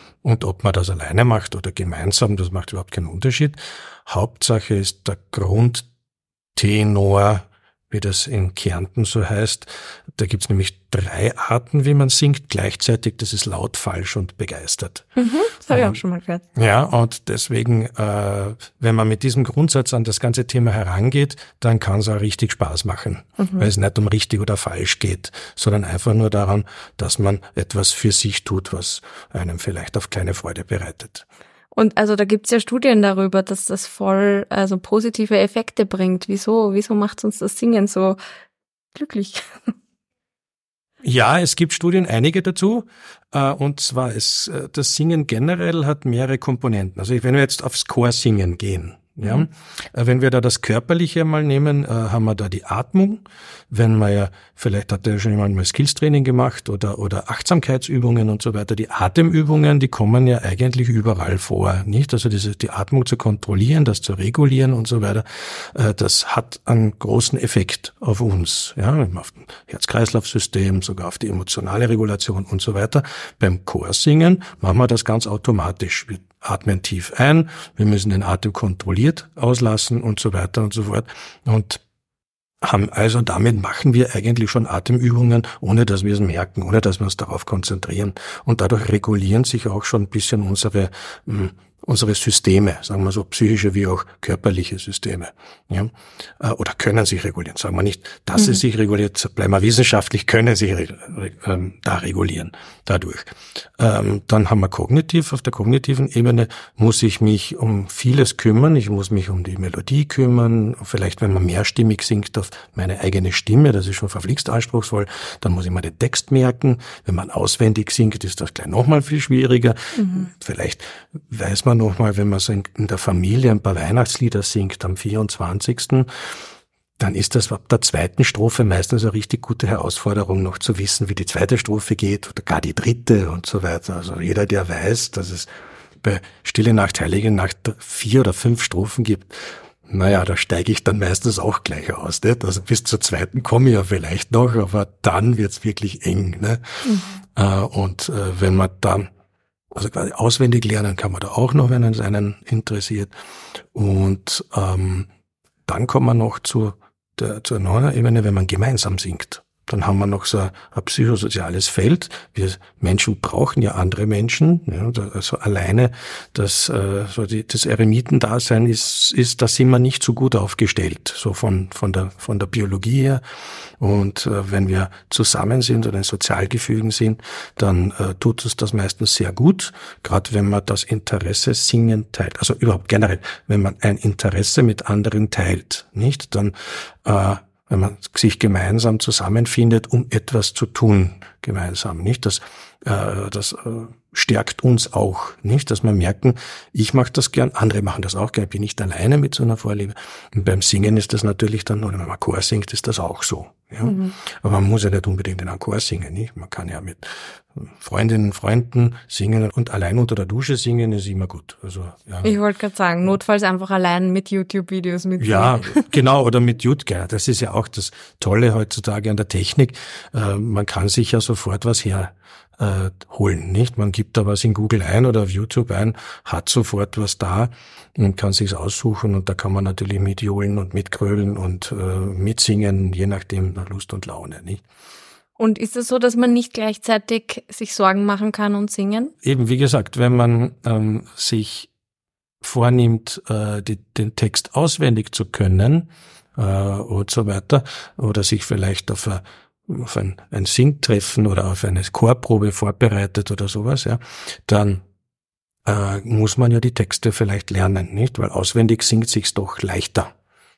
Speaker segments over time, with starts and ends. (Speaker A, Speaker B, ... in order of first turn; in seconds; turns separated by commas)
Speaker A: 0.2-5.9, Speaker A: 6.6-15.1, Speaker B: 15.2-16.4, Speaker A: 15.7-16.0, Speaker A: 16.6-31.2, Speaker B: 23.4-23.7, Speaker B: 31.7-38.2, Speaker B: 39.0-39.4, Speaker A: 41.0-81.8, Speaker A: 82.6-126.1, Speaker B: 98.4-98.6, Speaker B: 120.0-120.3, Speaker A: 127.0-135.5, Speaker A: 136.0-149.1, Speaker B: 146.8-147.2, Speaker A: 149.7-153.1, Speaker A: 153.7-155.1, Speaker A: 155.7-173.2, Speaker A: 173.8-212.4, Speaker B: 203.8-204.2, Speaker B: 212.2-215.9, Speaker A: 215.2-234.6, Speaker B: 235.4-239.1, Speaker A: 239.2-241.7, Speaker A: 242.4-254.8, Speaker A: 255.7-260.1